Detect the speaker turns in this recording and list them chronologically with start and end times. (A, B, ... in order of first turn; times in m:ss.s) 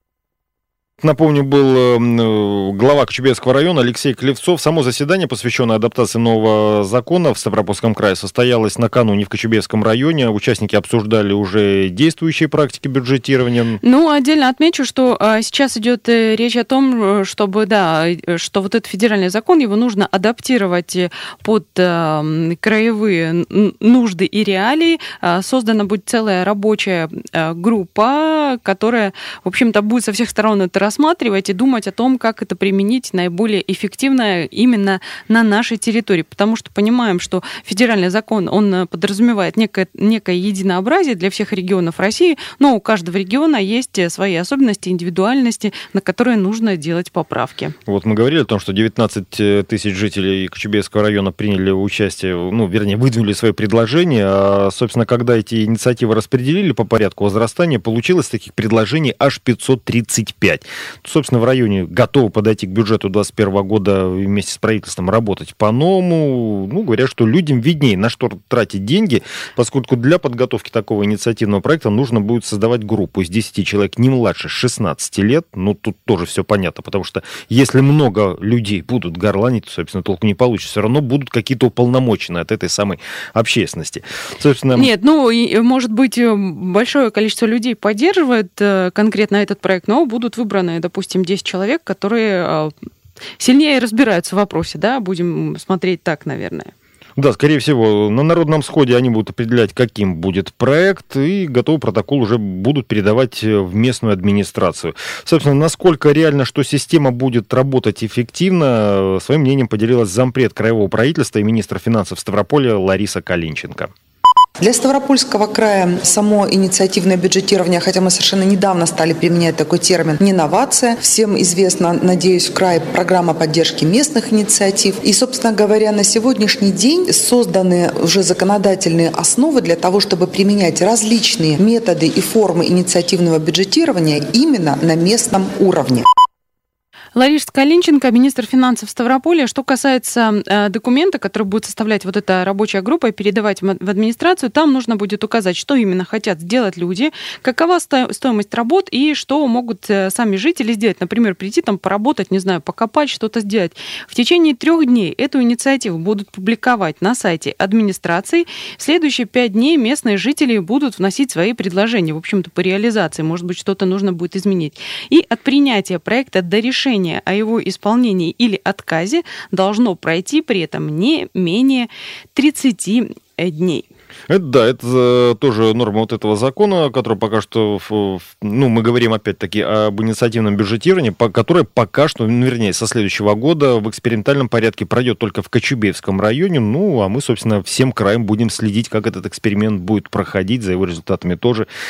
0:01.0-0:13.8 A
0:13.8-0:47.8 B
0:47.9-1:24.9 A
1:24.7-1:32.7 B
1:33.4-1:36.7 B
1:37.2-1:53.9 A
1:54.6-2:16.1 C
2:17.2-2:53.8 B
2:54.3-3:11.7 A